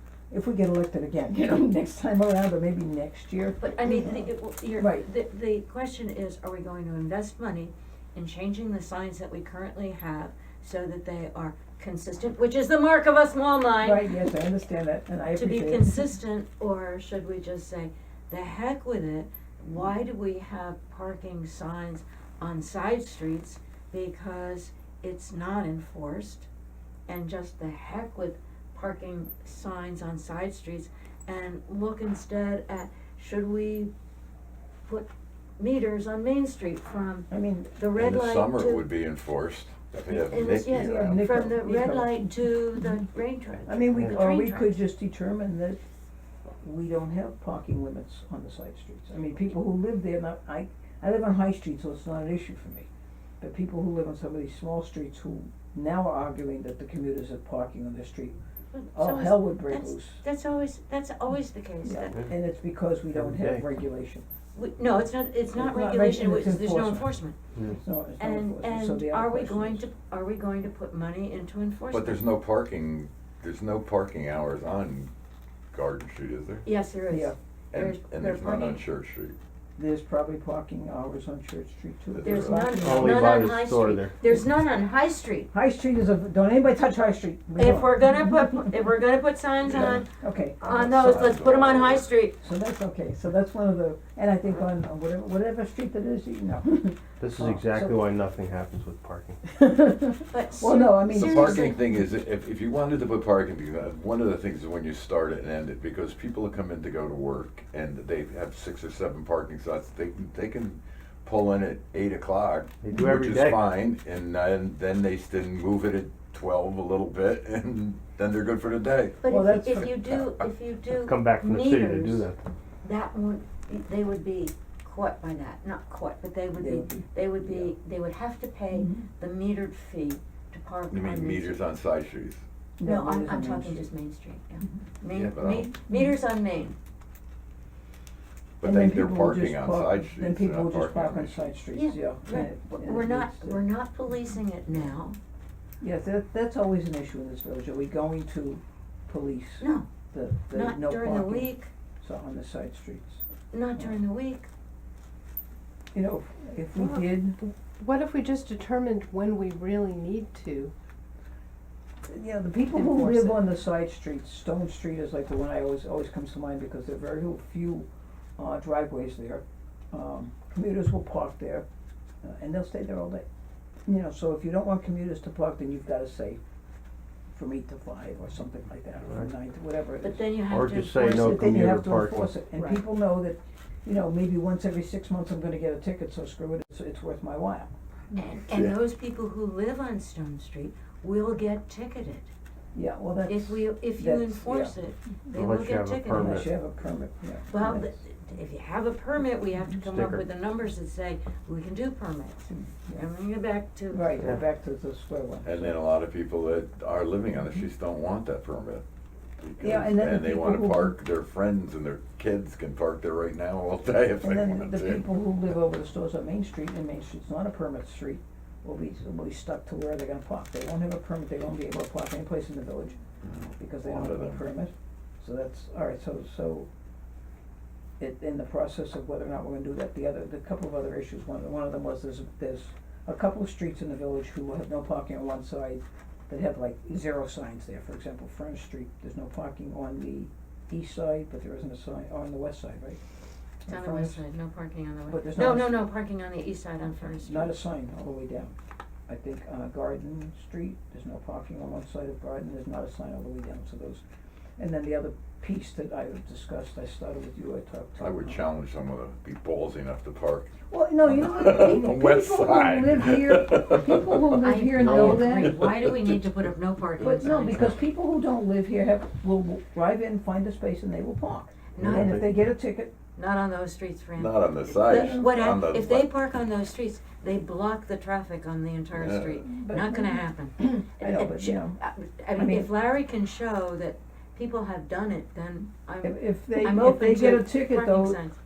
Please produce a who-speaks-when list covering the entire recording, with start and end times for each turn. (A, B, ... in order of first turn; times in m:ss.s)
0:00.3-0:05.1 A
0:03.6-0:14.3 B
0:13.8-0:16.0 A
0:15.4-0:26.5 B
0:27.1-0:33.9 B
0:35.6-0:38.9 B
0:37.3-0:37.8 A
0:38.0-0:41.2 C
0:40.0-0:44.8 B
0:40.6-0:42.9 A
0:43.7-0:45.8 A
0:46.6-0:52.9 A
0:53.4-0:58.4 A
0:58.7-1:02.2 B
0:58.9-1:00.2 A
1:01.8-1:04.2 A
1:03.1-1:03.7 D
1:04.6-1:07.4 B
1:05.5-1:07.1 A
1:07.6-1:09.9 A
1:08.2-1:12.2 B
1:11.9-1:15.1 C
1:15.7-1:16.6 C
1:16.6-1:18.8 B
1:17.1-1:17.4 A
1:17.7-1:19.4 C
1:19.8-1:23.4 A
1:22.1-1:22.7 C
1:22.2-1:25.5 B
1:22.8-1:24.1 D
1:25.5-1:28.9 A
1:27.6-1:30.1 B
1:29.7-1:38.0 A
1:30.6-1:32.4 B
1:30.8-1:31.5 C
1:37.2-1:39.4 D
1:39.5-1:41.7 A
1:40.3-1:41.9 B
1:41.1-1:59.2 C
1:52.8-1:53.6 D
1:59.2-2:02.3 B
1:59.3-2:00.3 A
2:01.0-2:02.4 D
2:02.8-2:11.6 B
2:06.6-2:07.7 A
2:08.7-2:09.0 A
2:10.9-2:12.4 C
2:12.8-2:13.9 A
2:12.8-2:16.8 B
2:15.1-2:15.7 C
2:18.6-2:21.4 C
2:18.6-2:23.6 A
2:21.7-2:25.2 B
2:25.8-2:33.2 A
2:29.6-2:29.9 B
2:30.5-2:31.7 B
2:33.5-2:34.5 B
2:35.9-2:37.4 A
2:36.8-2:40.7 E
2:42.1-2:47.9 A
2:42.8-2:43.3 B
2:48.4-2:51.6 A
2:52.2-2:53.2 A
2:53.9-2:56.4 A
2:57.3-3:00.2 A
3:00.0-3:01.4 B
3:00.5-3:02.3 D
3:01.1-3:07.7 A
3:08.1-3:12.3 B
3:08.5-3:08.8 C
3:12.7-3:14.8 A
3:13.3-3:16.5 B
3:15.3-3:16.5 D
3:16.1-3:18.0 A
3:17.5-3:24.2 B
3:19.8-3:20.2 D
3:22.5-3:23.0 A
3:23.9-3:25.8 A
3:25.4-3:28.8 C
3:29.4-3:35.0 C
3:29.6-3:31.0 A
3:34.2-3:43.0 A
3:43.2-3:44.4 C
3:43.6-3:46.7 A
3:48.0-4:03.0 A
4:03.6-4:04.2 A
4:03.7-4:07.6 B
4:05.1-4:05.8 A
4:07.2-4:08.6 A
4:09.1-4:14.0 A
4:14.6-4:18.4 A
4:18.0-4:24.2 C
4:20.7-4:25.7 A
4:24.4-4:27.7 B
4:25.4-4:26.2 C
4:27.0-4:32.9 A
4:31.8-4:32.2 D
4:33.2-4:48.4 B
4:34.2-4:36.1 C
4:34.7-4:35.5 A
4:38.9-4:39.4 C
4:39.4-4:41.8 A
4:42.3-4:42.7 A
4:46.0-4:48.2 A